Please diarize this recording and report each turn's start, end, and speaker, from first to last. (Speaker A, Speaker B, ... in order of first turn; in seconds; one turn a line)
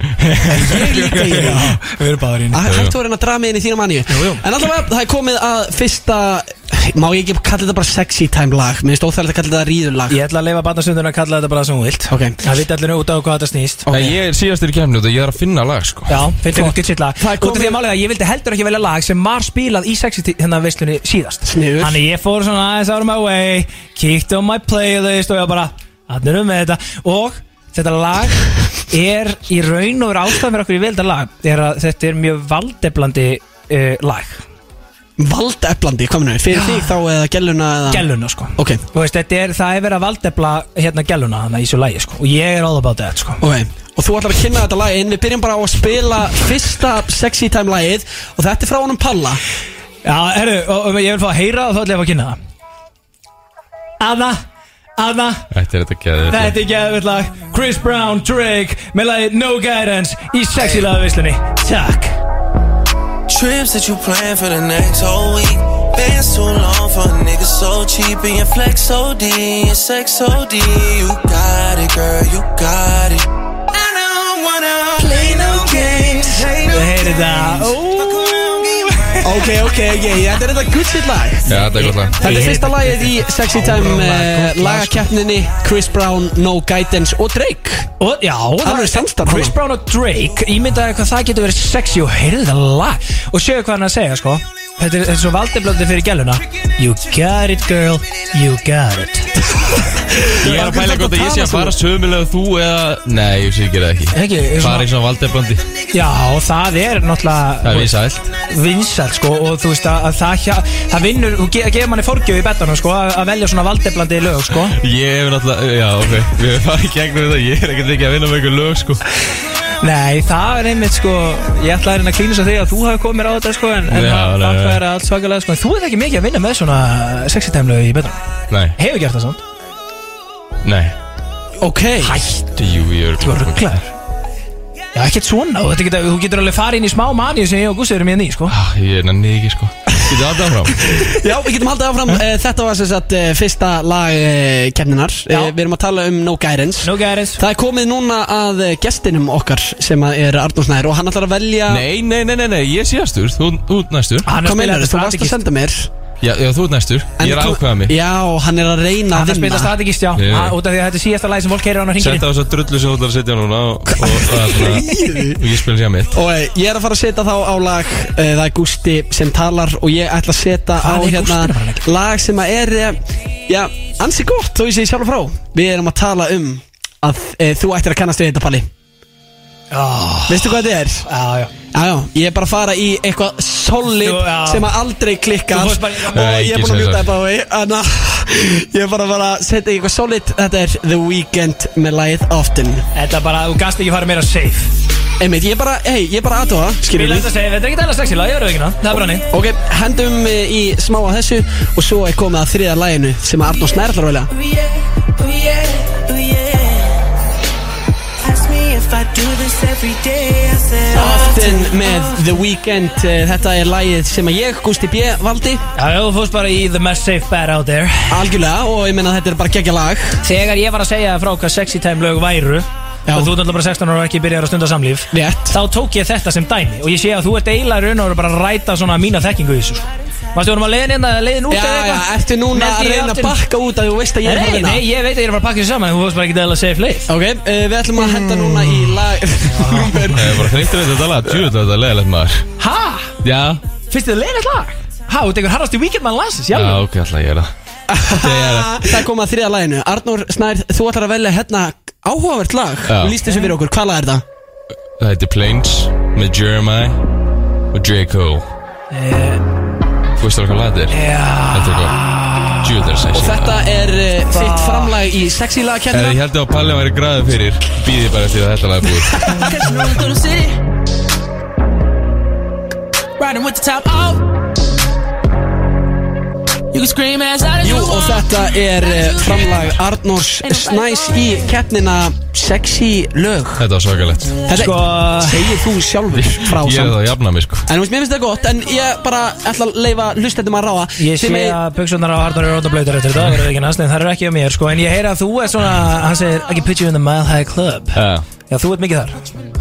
Speaker A: 0.2-2.6
Speaker B: 0.5-1.8
Speaker B: 2.5-10.2
Speaker C: 2.6-3.0
Speaker A: 4.1-4.4
Speaker A: 10.1-13.9
Speaker B: 12.1-12.4
Speaker B: 13.9-14.2
Speaker C: 13.9-16.2
Speaker A: 16.1-34.4
Speaker B: 16.5-17.8
Speaker B: 21.4-22.0
Speaker B: 35.2-38.8
Speaker A: 36.5-37.0
Speaker A: 37.9-43.4
Speaker B: 43.4-49.4
Speaker A: 50.0-52.4
Speaker A: 54.0-54.4
Speaker A: 55.0-55.5
Speaker C: 55.5-56.5
Speaker A: 56.3-62.2
Speaker D: 63.3-77.7
Speaker A: 75.0-79.3
Speaker D: 78.2-78.9
Speaker B: 79.2-87.9
Speaker A: 81.5-85.1
Speaker C: 81.5-82.3
Speaker A: 88.0-99.4
Speaker B: 88.6-89.5
Speaker B: 99.6-101.8
Speaker C: 100.4-105.6
Speaker A: 104.1-104.9
Speaker A: 105.9-114.8
Speaker C: 107.6-108.3
Speaker C: 114.8-119.0
Speaker A: 119.8-128.2
Speaker C: 123.9-124.8
Speaker C: 128.5-128.8
Speaker A: 128.8-129.4
Speaker C: 130.6-130.9
Speaker B: 131.6-132.3
Speaker A: 132.0-132.4
Speaker C: 132.6-133.8
Speaker A: 133.2-133.9
Speaker A: 134.9-138.6
Speaker C: 138.5-140.9
Speaker B: 140.9-151.8
Speaker A: 145.3-145.6
Speaker A: 146.8-147.4
Speaker C: 151.7-154.3
Speaker A: 154.3-155.4
Speaker B: 154.4-155.9
Speaker C: 156.2-158.0
Speaker B: 157.2-159.7
Speaker A: 159.1-162.3
Speaker C: 160.2-160.6
Speaker C: 162.0-166.2
Speaker B: 163.9-165.4
Speaker B: 166.1-178.7
Speaker A: 170.8-171.9
Speaker A: 179.7-181.5
Speaker B: 180.3-181.1
Speaker B: 181.7-192.8
Speaker A: 183.9-184.7
Speaker A: 185.5-186.4
Speaker C: 186.1-187.1
Speaker A: 192.9-194.7
Speaker B: 195.2-197.3
Speaker A: 196.9-199.3
Speaker B: 199.3-204.3
Speaker D: 208.4-209.2
Speaker B: 210.9-215.6
Speaker A: 215.8-218.3
Speaker B: 218.1-220.2
Speaker A: 220.2-233.4
Speaker B: 223.1-223.4
Speaker B: 225.1-225.6
Speaker B: 231.5-234.8
Speaker A: 234.2-237.1
Speaker B: 237.1-240.6
Speaker A: 239.4-240.2
Speaker C: 240.1-242.5
Speaker A: 242.6-243.2
Speaker C: 243.2-243.6
Speaker A: 243.9-246.8
Speaker C: 246.5-247.5
Speaker B: 247.9-254.2
Speaker C: 248.1-249.0
Speaker C: 252.9-253.2
Speaker A: 253.3-253.5
Speaker C: 255.0-257.0
Speaker C: 257.7-258.5
Speaker A: 258.9-259.4
Speaker C: 260.2-261.0
Speaker A: 260.9-262.7
Speaker C: 261.5-262.0
Speaker C: 262.6-263.6
Speaker B: 263.1-266.2
Speaker A: 264.3-265.0
Speaker C: 265.9-269.2
Speaker D: 269.5-270.5
Speaker D: 273.4-274.2
Speaker D: 276.7-278.2
Speaker B: 277.6-283.7
Speaker C: 283.6-284.5
Speaker B: 284.5-287.1
Speaker A: 284.5-285.6
Speaker C: 286.1-287.7
Speaker B: 287.7-291.6
Speaker A: 291.0-299.2
Speaker C: 297.9-298.2